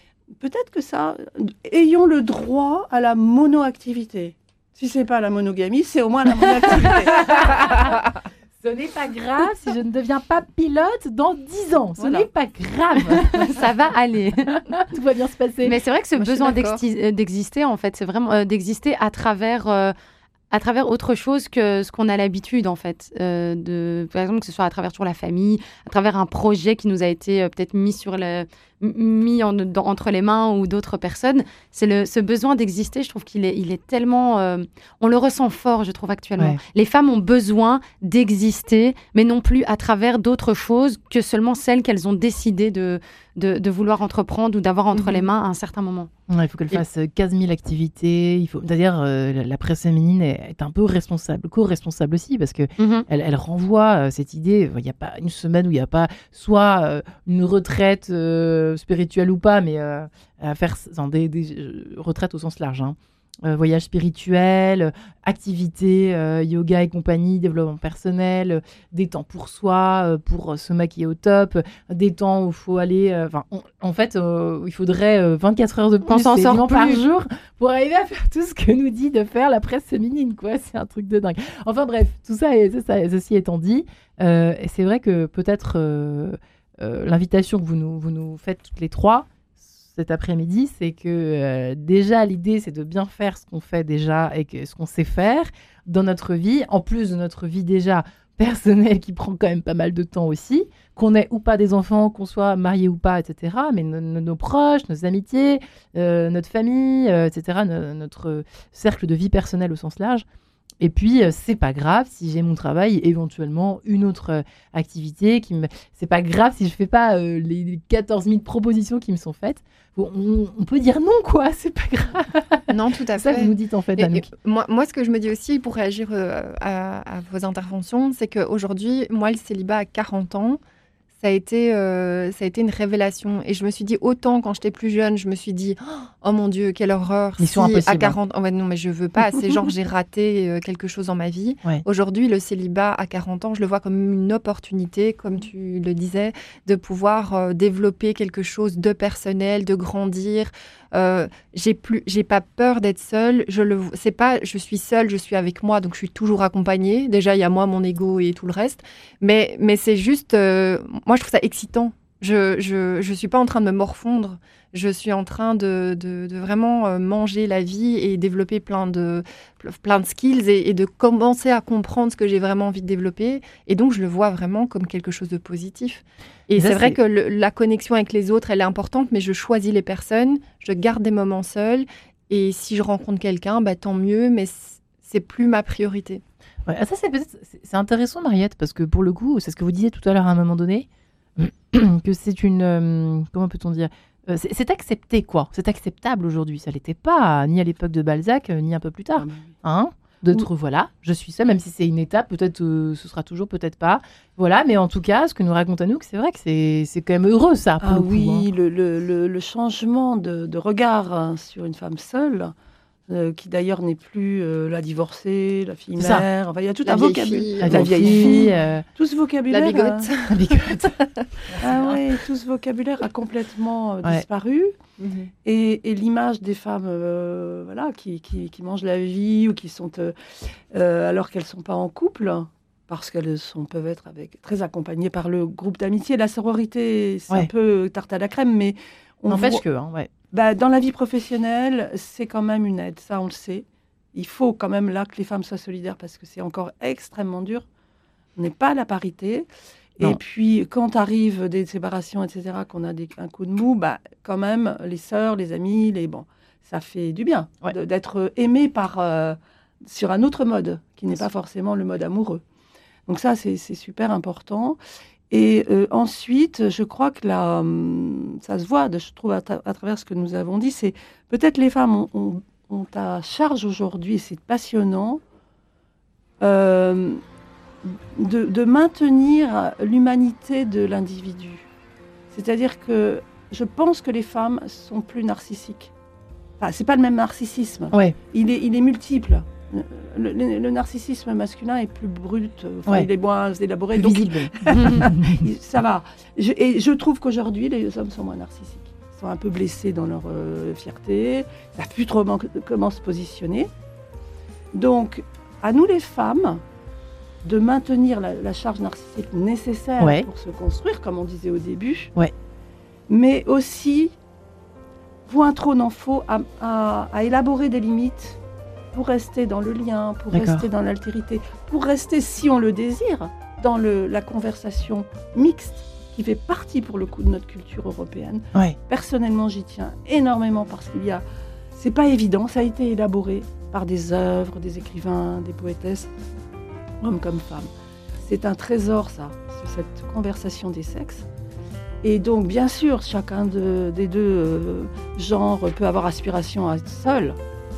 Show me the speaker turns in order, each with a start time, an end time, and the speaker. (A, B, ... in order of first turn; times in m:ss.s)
0:00.4-0:07.5 A
0:06.7-0:08.1 B
0:08.6-0:13.5 B
0:12.0-0:12.3 A
0:13.3-0:14.6 C
0:14.7-0:15.8 B
0:15.6-0:19.9 C
0:16.2-0:16.8 D
0:20.5-0:46.1 C
0:45.0-0:45.2 D
0:46.3-1:50.2 B
0:52.8-0:53.0 C
1:16.0-1:17.0 C
1:50.8-2:04.3 B
2:02.7-2:10.6 D
2:11.2-3:06.2 D
2:17.4-2:18.2 B
2:56.6-2:57.0 B
3:06.6-3:28.4 B
3:19.2-3:19.5 A
3:27.8-3:32.5 A
3:33.1-3:40.1 A
3:36.0-3:36.2 B
3:36.8-3:38.5 D
3:37.6-3:38.8 B
3:39.5-3:41.5 D
3:40.3-3:42.0 B
3:41.6-3:44.7 A
3:45.0-3:45.3 D
3:45.4-3:59.6 A
3:59.3-4:00.1 B
4:00.3-4:07.6 A
4:08.4-4:09.5 A
4:10.0-4:22.4 A
4:23.1-4:24.8 A
4:25.3-4:35.2 A
4:36.4-4:37.2 A
4:37.8-4:41.7 A
4:42.3-4:45.9 A
4:46.6-5:03.7 A
4:53.9-4:55.4 B
5:04.7-5:06.6 A
5:07.4-5:12.1 A
5:10.0-5:10.3 B
5:13.1-5:14.2 A
5:15.2-5:18.4 A
5:18.9-5:36.1 A
5:20.3-5:20.6 B
5:37.0-5:37.7 A
5:38.2-5:41.3 A
5:42.0-5:47.4 A